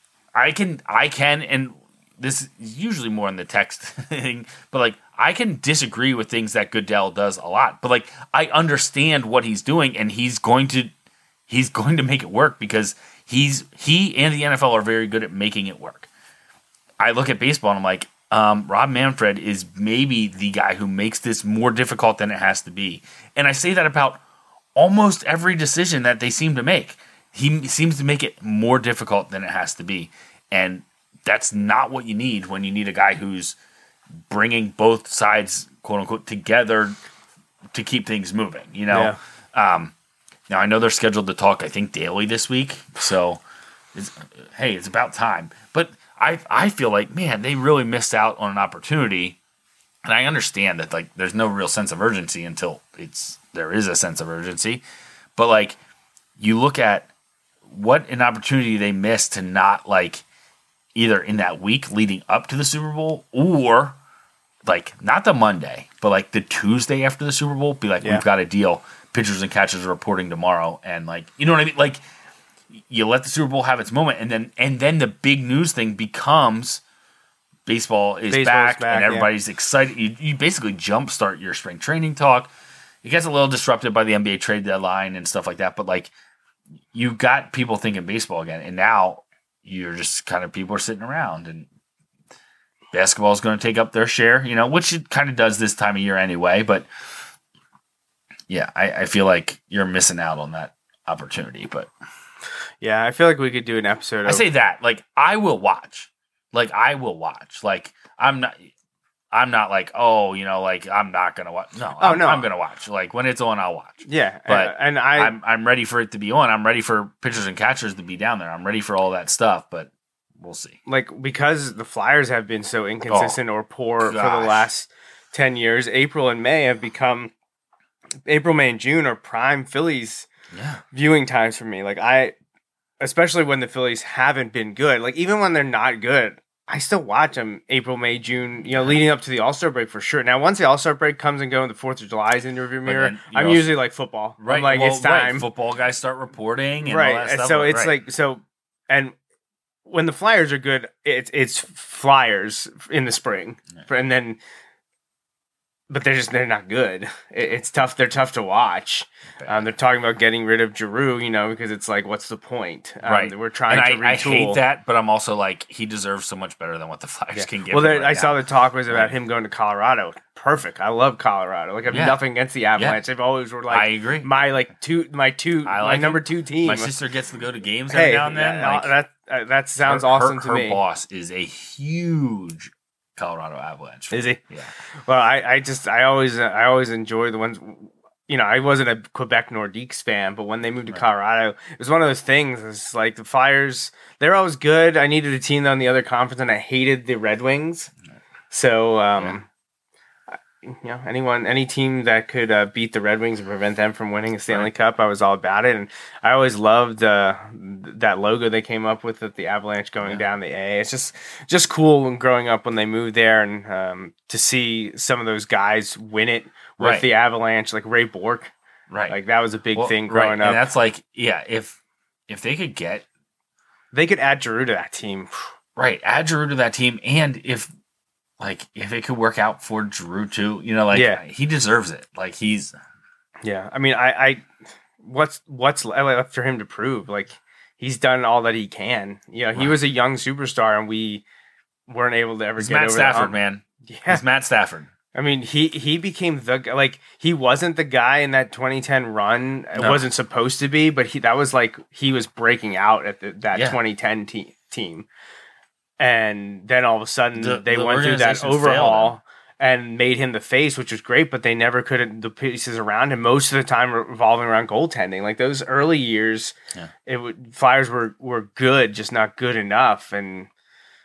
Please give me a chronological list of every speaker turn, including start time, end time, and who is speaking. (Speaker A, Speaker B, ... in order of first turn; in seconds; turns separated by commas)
Speaker A: 0.3-10.9, Speaker A: 11.5-16.1, Speaker A: 17.0-24.2, Speaker A: 24.7-33.6, Speaker A: 34.3-37.0, Speaker A: 37.7-39.9, Speaker B: 38.9-39.2, Speaker A: 40.5-43.4, Speaker A: 43.9-49.4, Speaker A: 50.0-54.8, Speaker A: 55.4-55.8, Speaker A: 56.4-57.1, Speaker A: 57.7-60.2, Speaker A: 60.9-64.0, Speaker A: 64.6-72.0, Speaker A: 72.7-76.8, Speaker A: 77.7-82.5, Speaker B: 78.3-79.3, Speaker A: 83.0-86.1, Speaker A: 86.9-91.7, Speaker A: 92.9-96.9, Speaker A: 98.5-101.9, Speaker B: 102.8-104.4, Speaker A: 104.2-108.7, Speaker A: 109.3-120.8, Speaker B: 112.0-112.5, Speaker B: 114.0-115.3, Speaker B: 120.8-127.3, Speaker A: 123.1-123.4, Speaker A: 124.0-124.7, Speaker B: 128.2-130.3, Speaker A: 130.5-130.8, Speaker B: 130.9-132.3, Speaker B: 133.0-145.4, Speaker A: 138.7-139.0, Speaker A: 142.8-143.8, Speaker A: 144.4-147.9, Speaker B: 146.8-149.1, Speaker B: 149.8-154.4, Speaker B: 155.9-164.6, Speaker A: 159.4-159.7, Speaker A: 163.0-169.1, Speaker B: 167.3-176.9, Speaker A: 171.9-172.2, Speaker A: 173.7-174.3, Speaker A: 175.6-178.9, Speaker B: 177.9-180.8, Speaker A: 179.8-184.7, Speaker B: 184.1-184.4, Speaker B: 185.1-197.9, Speaker B: 198.5-199.4, Speaker B: 200.6-218.5, Speaker A: 216.8-217.1, Speaker A: 218.9-219.2, Speaker B: 219.1-220.6, Speaker A: 219.7-221.8, Speaker A: 222.3-223.1, Speaker B: 223.9-225.5, Speaker A: 225.8-227.7, Speaker A: 228.4-232.8, Speaker B: 230.9-231.2, Speaker B: 233.4-234.4, Speaker B: 235.0-241.2, Speaker B: 241.9-244.2, Speaker A: 242.6-244.9, Speaker B: 245.1-255.1, Speaker A: 249.7-250.0, Speaker A: 253.5-253.8, Speaker B: 256.0-266.5, Speaker A: 257.4-259.2, Speaker B: 267.1-270.5